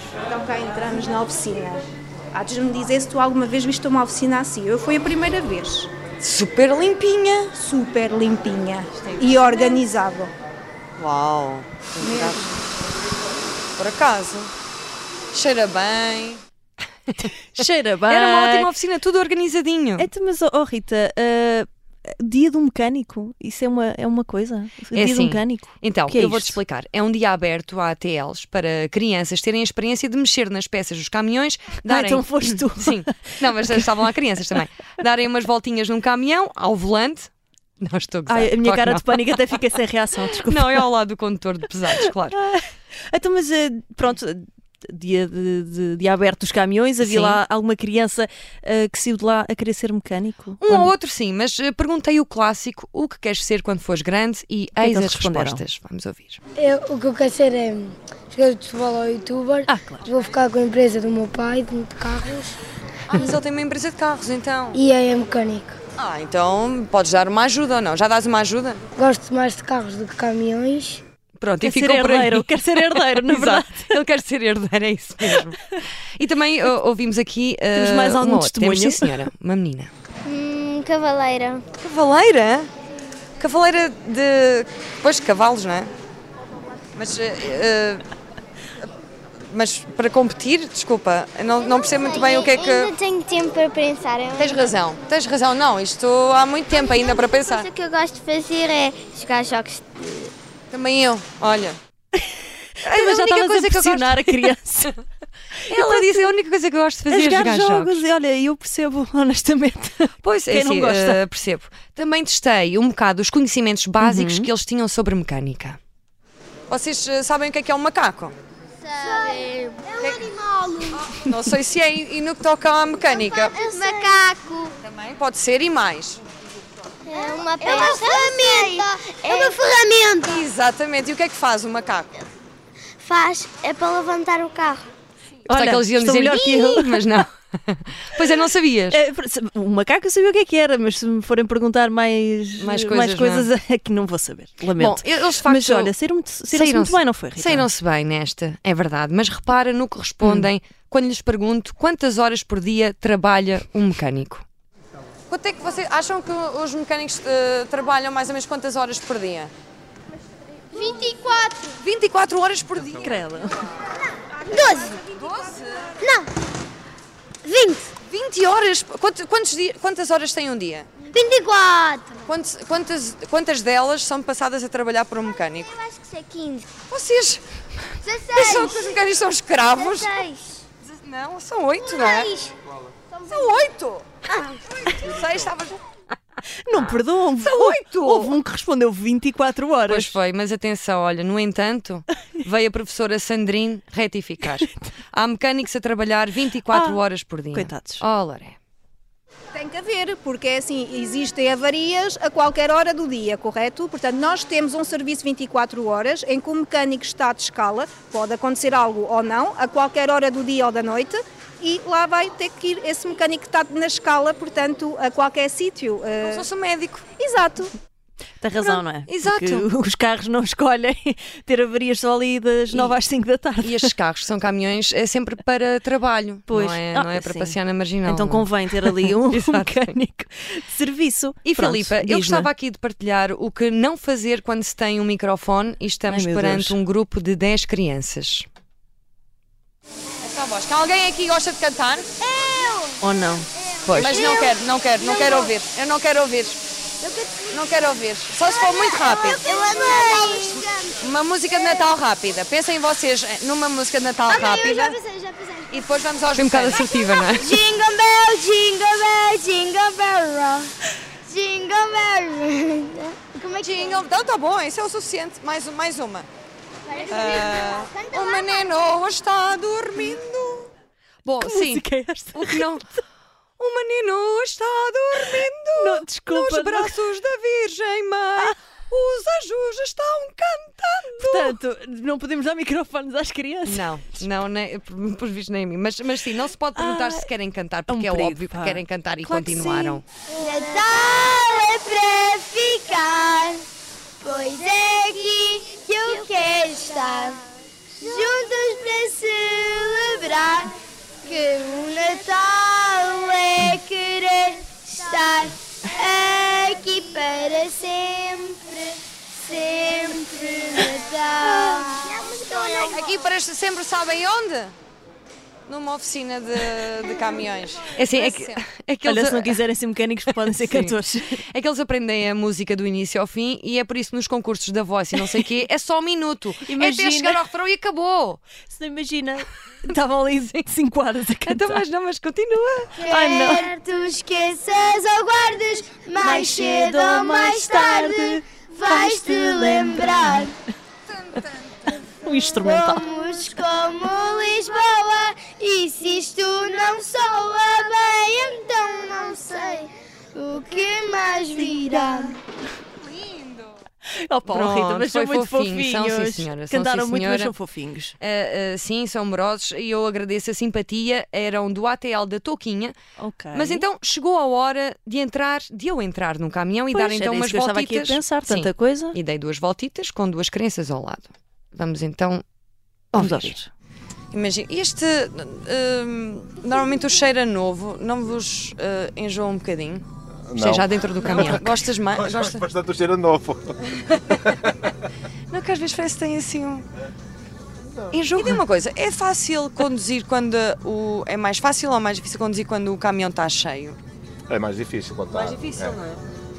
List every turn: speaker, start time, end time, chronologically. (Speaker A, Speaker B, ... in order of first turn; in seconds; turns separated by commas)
Speaker A: 0.2-5.9, Speaker B: 6.2-7.5, Speaker A: 7.5-10.3, Speaker B: 11.0-12.5, Speaker A: 12.0-12.5, Speaker B: 13.8-14.5, Speaker B: 15.3-16.4, Speaker C: 17.2-18.7, Speaker B: 18.1-20.1, Speaker C: 20.0-26.6, Speaker B: 24.9-39.6, Speaker C: 31.8-34.6, Speaker C: 38.3-40.9, Speaker B: 40.3-42.4, Speaker C: 41.9-50.9, Speaker B: 47.0-47.4, Speaker B: 50.6-56.4, Speaker C: 54.8-55.6, Speaker D: 56.6-62.6, Speaker C: 59.6-60.1, Speaker B: 63.1-64.8, Speaker D: 64.7-65.8, Speaker B: 66.0-68.8, Speaker D: 69.0-71.0, Speaker B: 71.4-79.9, Speaker C: 71.6-74.0, Speaker C: 77.7-79.3, Speaker E: 80.2-81.6, Speaker B: 81.8-82.7, Speaker B: 83.4-85.9, Speaker B: 86.9-88.0, Speaker B: 89.5-92.9, Speaker E: 91.8-94.7, Speaker B: 94.3-97.7, Speaker E: 96.7-100.3, Speaker B: 100.7-101.8, Speaker C: 102.8-105.0, Speaker B: 102.8-104.5, Speaker C: 105.6-106.2, Speaker B: 105.7-108.0, Speaker C: 107.1-111.2, Speaker B: 110.2-115.8, Speaker C: 114.0-114.5, Speaker B: 116.7-118.3, Speaker E: 118.8-121.1, Speaker B: 120.0-120.3, Speaker B: 120.9-123.6, Speaker E: 123.1-124.7, Speaker B: 124.8-126.2, Speaker E: 127.0-130.4, Speaker D: 128.1-128.7, Speaker B: 130.2-132.2, Speaker E: 133.0-134.9, Speaker C: 135.4-137.2, Speaker B: 135.5-139.0, Speaker C: 138.9-147.7, Speaker B: 142.6-143.5, Speaker B: 144.8-145.9, Speaker B: 146.5-154.4, Speaker C: 150.2-150.5, Speaker B: 155.3-159.5, Speaker E: 160.7-161.7, Speaker B: 161.8-163.1, Speaker C: 162.9-163.6, Speaker E: 164.5-165.0, Speaker D: 164.5-164.9, Speaker B: 165.1-166.0, Speaker D: 167.4-167.9, Speaker B: 168.0-170.9, Speaker E: 171.1-172.3, Speaker B: 172.2-175.7, Speaker E: 175.7-176.7, Speaker B: 176.9-177.4, Speaker E: 178.0-179.0, Speaker B: 178.3-180.2, Speaker E: 179.6-180.6, Speaker B: 180.8-182.5, Speaker E: 181.9-182.5, Speaker B: 183.2-184.1, Speaker B: 184.7-185.8, Speaker C: 186.6-190.1, Speaker B: 186.8-188.3, Speaker B: 189.9-198.6, Speaker C: 196.7-198.0, Speaker A: 199.5-216.4, Speaker B: 216.2-217.1, Speaker C: 217.2-217.7, Speaker C: 218.4-223.9, Speaker B: 218.6-219.7, Speaker B: 222.7-222.9, Speaker B: 223.6-229.9, Speaker C: 226.5-232.5, Speaker B: 231.4-238.5, Speaker C: 236.1-236.8, Speaker B: 240.2-242.1, Speaker E: 242.2-243.0, Speaker C: 243.0-243.5, Speaker E: 243.8-245.5, Speaker B: 243.8-246.6, Speaker E: 247.0-247.9, Speaker B: 247.5-249.4, Speaker E: 248.4-251.0, Speaker B: 250.3-255.0, Speaker E: 251.5-251.8, Speaker E: 254.3-260.7, Speaker B: 255.7-257.6, Speaker E: 261.2-264.0, Speaker B: 263.5-266.3, Speaker E: 266.9-268.9, Speaker B: 267.1-270.7, Speaker B: 271.2-272.8, Speaker C: 271.4-272.8, Speaker B: 273.6-281.6, Speaker C: 275.3-276.9, Speaker C: 281.2-284.1, Speaker B: 283.6-290.0, Speaker C: 286.7-287.3, Speaker C: 287.9-290.0, Speaker E: 290.3-293.6, Speaker E: 294.2-297.4, Speaker E: 298.0-313.2, Speaker B: 312.8-314.7, Speaker B: 315.7-319.6, Speaker C: 319.0-321.4, Speaker B: 320.4-320.9, Speaker B: 321.5-328.4, Speaker C: 325.2-325.4, Speaker C: 326.6-327.4, Speaker C: 328.6-331.8, Speaker B: 331.4-333.0, Speaker E: 333.0-340.5, Speaker C: 333.0-333.7, Speaker C: 336.2-340.5, Speaker C: 342.0-343.1, Speaker E: 342.6-352.3, Speaker C: 351.6-352.3, Speaker B: 353.0-353.7, Speaker C: 354.1-358.2, Speaker B: 354.5-357.5, Speaker B: 358.2-363.0, Speaker C: 363.2-363.8, Speaker B: 363.5-372.4, Speaker C: 366.9-369.2, Speaker B: 373.1-373.5, Speaker C: 373.1-373.7, Speaker B: 374.3-380.0, Speaker F: 380.5-383.8, Speaker B: 380.6-382.7, Speaker B: 385.5-386.9, Speaker B: 388.1-394.0, Speaker F: 394.5-396.0, Speaker B: 395.3-396.2